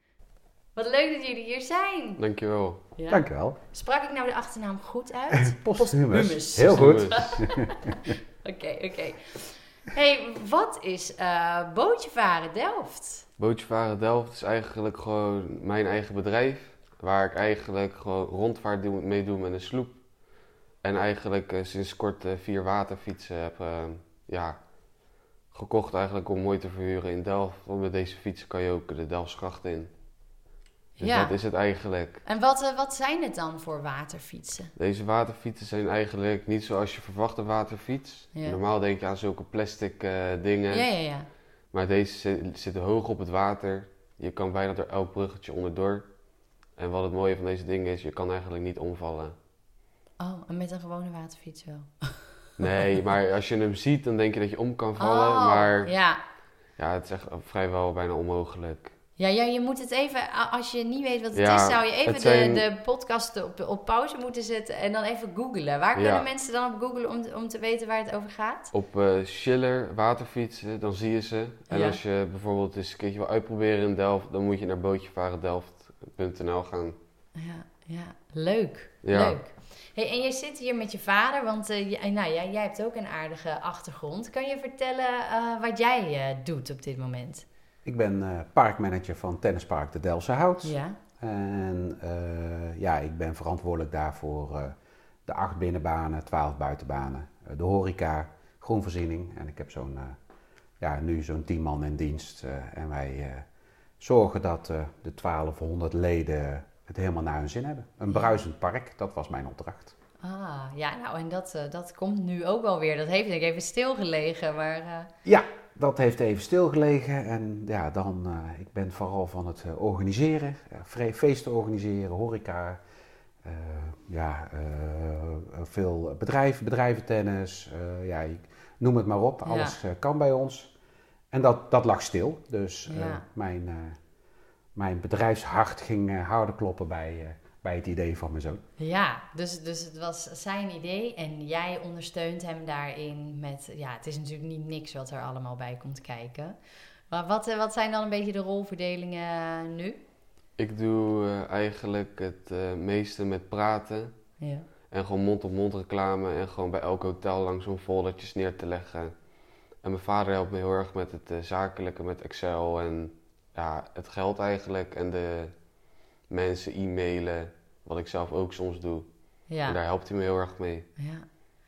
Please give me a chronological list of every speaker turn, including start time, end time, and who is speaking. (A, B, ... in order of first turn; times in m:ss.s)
0:00.8-0:02.2 A
0:02.2-0:02.8 B
0:03.0-0:13.3 A
0:03.1-0:03.6 C
0:05.3-0:08.2 C
0:06.6-0:07.3 B
0:13.4-0:20.0 B
0:20.8-0:24.6 B
0:25.5-0:29.9 B
0:31.0-0:31.3 A
0:31.0-0:32.2 B
0:32.2-0:34.7 A
0:34.8-0:40.9 B
0:40.7-0:41.3 A
0:41.7-0:46.1 B
0:46.8-0:49.4 B
0:50.2-0:52.4 A
0:52.6-0:55.9 B
0:55.0-0:56.2 A
0:56.8-0:58.9 B
0:59.2-1:08.7 A
1:01.3-1:02.6 B
1:06.0-1:06.2 B
1:08.7-1:17.0 B
1:11.7-1:12.0 A
1:17.4-1:27.4 A
1:19.0-1:19.4 B
1:27.8-1:34.8 C
1:30.6-1:31.0 A
1:35.3-1:40.2 C
1:40.8-1:43.4 C
1:44.0-1:49.9 C
1:48.1-1:48.4 A
1:50.2-1:55.1 A
1:55.2-2:02.8 C
2:03.4-2:10.7 C
2:09.4-2:09.8 A
2:11.3-2:14.0 C
2:12.9-2:13.2 A
2:14.8-2:18.6 C
2:18.8-2:26.6 A
2:27.1-2:30.0 A
2:30.6-2:34.1 B
2:34.4-2:34.7 A
2:34.9-2:39.1 B
2:39.8-2:45.5 B
2:46.3-2:50.9 B
2:49.5-2:49.8 A
2:51.0-2:51.2 A